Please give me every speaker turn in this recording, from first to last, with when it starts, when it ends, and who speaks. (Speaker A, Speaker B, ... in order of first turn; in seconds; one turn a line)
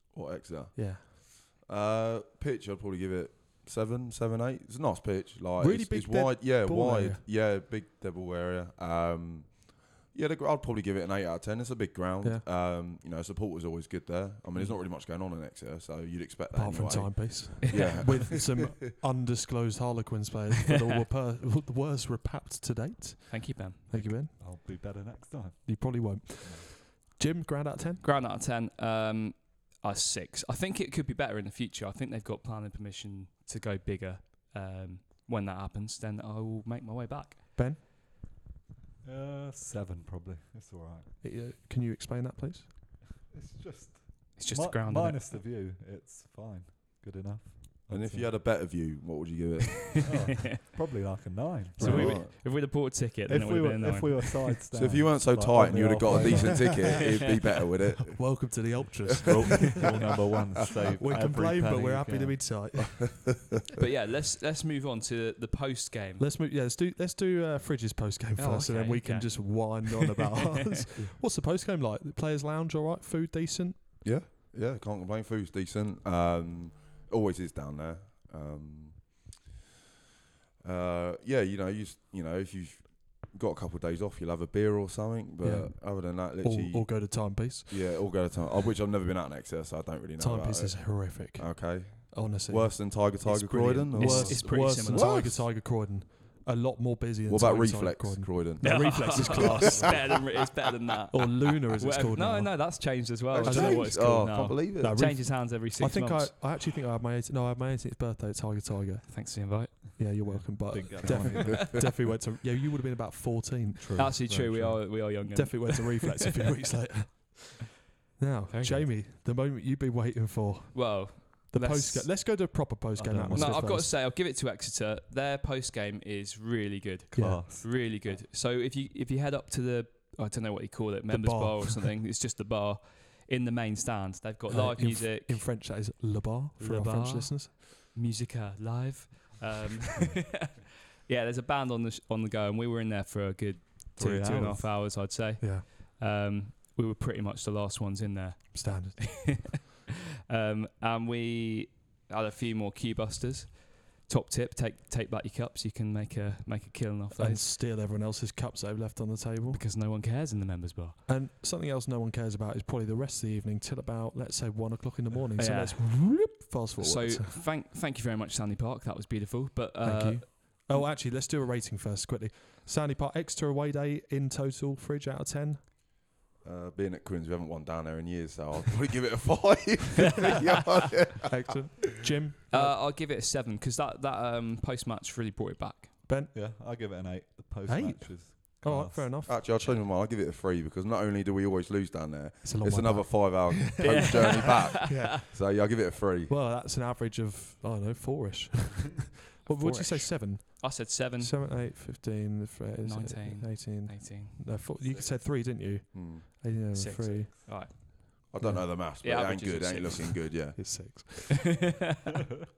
Speaker A: 0.1-18.6
Speaker B: 0.8-1.1
Speaker B: 5.6-7.2
Speaker B: 16.5-24.4
Speaker C: 17.7-18.0
Speaker C: 23.3-24.1
Speaker D: 23.9-26.7
Speaker B: 25.6-28.0
Speaker C: 28.0-37.4
Speaker D: 39.0-41.2
Speaker B: 41.2-42.7
Speaker D: 43.3-48.4
Speaker C: 44.4-45.4
Speaker A: 47.9-50.1
Speaker D: 50.0-52.2
Speaker B: 51.8-52.2
Speaker C: 51.8-54.5
Speaker A: 51.9-52.3
Speaker D: 53.3-56.8
Speaker A: 54.7-58.6
Speaker B: 56.1-56.7
Speaker B: 58.1-59.8
Speaker D: 59.3-62.5
Speaker B: 61.0-63.3
Speaker C: 63.8-66.3
Speaker B: 66.2-73.8
Speaker C: 68.4-70.0
Speaker A: 74.0-79.4
Speaker A: 80.6-95.4
Speaker B: 85.4-88.0
Speaker B: 90.2-93.0
Speaker C: 93.2-95.4
Speaker B: 93.9-100.1
Speaker A: 97.3-100.0
Speaker C: 98.6-106.5
Speaker B: 101.1-123.9
Speaker A: 103.3-105.0
Speaker C: 109.1-110.0
Speaker D: 110.2-111.8
Speaker D: 113.8-114.8
Speaker C: 114.0-116.2
Speaker D: 118.5-118.9
Speaker C: 120.7-122.2
Speaker D: 123.0-123.8
Speaker C: 123.3-135.4
Speaker B: 127.1-127.4
Speaker D: 127.1-127.8
Speaker B: 131.1-131.8
Speaker B: 134.5-137.5
Speaker C: 136.6-149.7
Speaker D: 144.0-144.6
Speaker B: 144.0-145.7
Speaker B: 148.5-149.5
Speaker C: 150.3-157.5
Speaker B: 157.2-159.6
Speaker C: 159.5-161.0
Speaker B: 161.1-167.4
Speaker C: 165.4-166.2
Speaker C: 166.8-170.9
Speaker B: 169.8-175.6
Speaker A: 176.4-181.4
Speaker B: 181.3-182.8
Speaker C: 182.5-186.0
Speaker B: 186.1-186.3
Speaker D: 186.3-189.1
Speaker B: 187.7-189.4
Speaker A: 189.3-196.3
Speaker B: 192.4-208.7
Speaker C: 193.8-195.0
Speaker C: 199.4-201.4
Speaker C: 202.8-204.6
Speaker A: 205.9-206.3
Speaker C: 206.7-207.8
Speaker A: 208.3-210.7
Speaker C: 209.0-210.3
Speaker B: 210.6-211.5
Speaker C: 211.5-212.5